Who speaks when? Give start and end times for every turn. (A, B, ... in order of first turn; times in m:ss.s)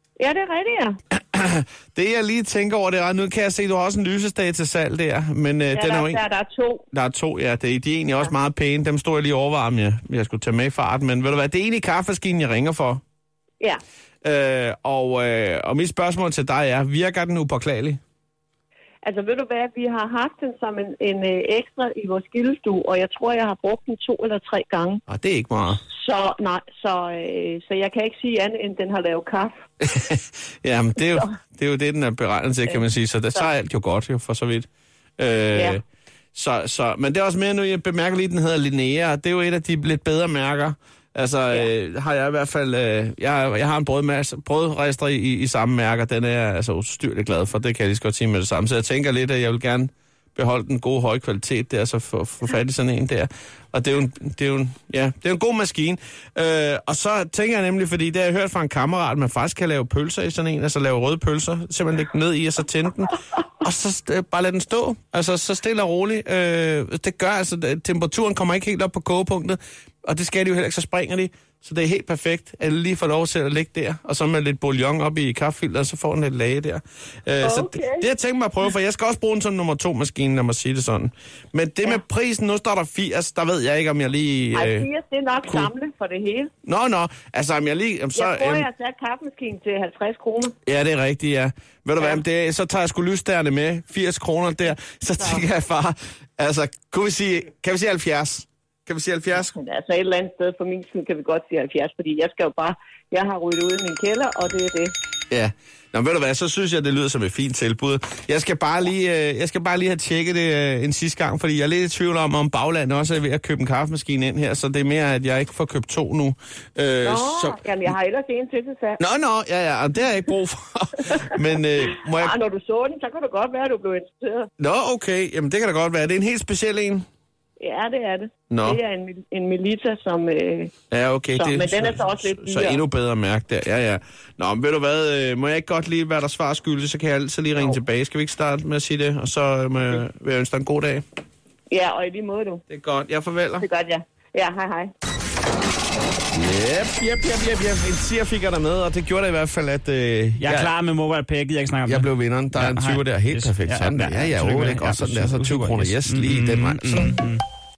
0:00.2-0:01.0 A
0:01.3-0:06.2 B
0:05.7-0:06.8 A
0:06.9-0:13.0 B
0:14.2-0:18.0 B
0:19.0-0:25.0 A
0:25.1-0:25.8 B
0:25.9-0:29.5 A
0:29.8-0:34.7 B
0:35.2-0:35.8 B
0:35.5-0:35.8 A
0:36.3-1:24.9 B
1:17.4-1:18.1 A
1:24.5-1:26.5 A
1:26.6-1:28.7 B
1:28.2-1:30.5 A
1:30.6-1:39.5 B
1:35.2-1:35.4 A
1:39.6-1:44.9 A
1:45.3-1:57.6 B
1:57.0-1:59.0 A
1:59.0-2:02.3 B
2:02.1-2:04.5 A
2:04.6-2:07.0 B
2:07.6-2:10.7 A
2:08.5-2:08.8 B
2:10.9-2:21.0 B
2:11.4-2:12.8 A
2:21.7-2:22.6 A
2:22.7-2:23.6 B
2:23.6-2:24.9 A
2:26.3-2:30.7 B
2:30.4-2:37.4 C
2:31.9-2:37.2 B